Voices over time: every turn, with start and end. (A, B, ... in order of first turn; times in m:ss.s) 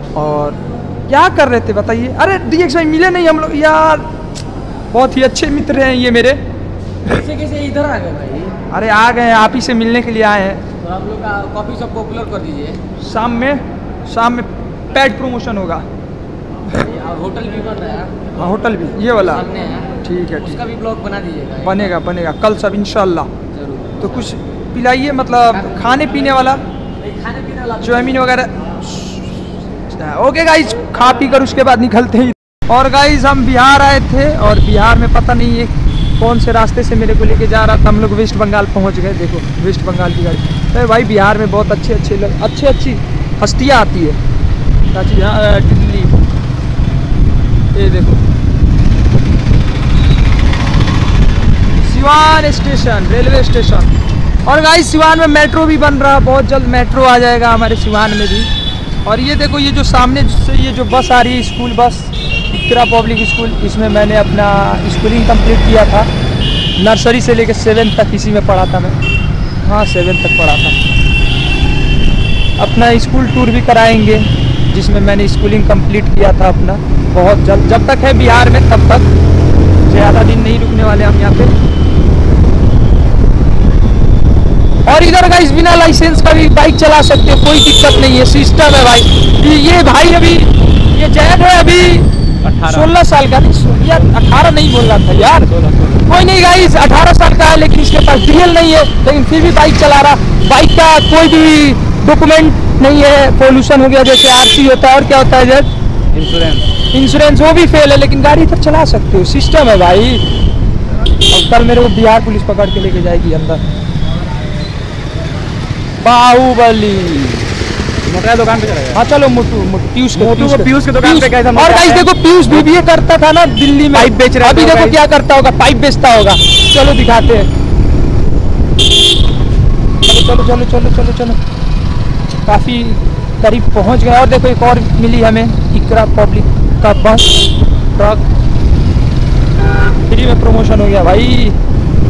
0:00.1-0:04.1 A
0:04.9-0:06.4 A
0:07.0-0:08.5 B
0:08.7-0:10.6 A
0:10.8-0:12.8 B
0:13.0-0:15.8 A
0:16.7-0:18.1 B
0:18.3-0:19.4 A
0:19.2-0:21.9 B
0:20.0-0:20.7 A
0:21.6-0:23.3 A
0:23.5-0:24.3 B
0:24.0-0:26.6 A
0:25.6-0:26.1 B
0:27.0-0:28.2 B
0:27.8-0:44.2 A
0:44.9-0:46.2 A
0:47.7-0:48.2 A
0:51.7-0:58.5 A
0:59.0-1:06.1 A
1:06.8-1:09.0 A
1:09.6-1:10.8 A
1:12.6-1:19.1 A
1:19.8-1:21.5 A
1:24.8-1:32.1 A
1:32.4-1:32.9 C
1:32.6-1:35.5 A
1:33.7-1:34.2 C
1:35.1-1:36.0 C
1:36.0-1:45.7 A
1:46.1-1:46.6 C
1:46.9-1:50.2 A
1:51.3-1:53.6 A
1:56.0-1:57.5 A
1:58.0-1:59.1 C
1:58.9-2:07.5 A
2:00.2-2:02.7 C
2:03.9-2:05.0 C
2:10.0-2:11.4 A
2:12.4-2:18.2 A
2:20.1-2:21.6 A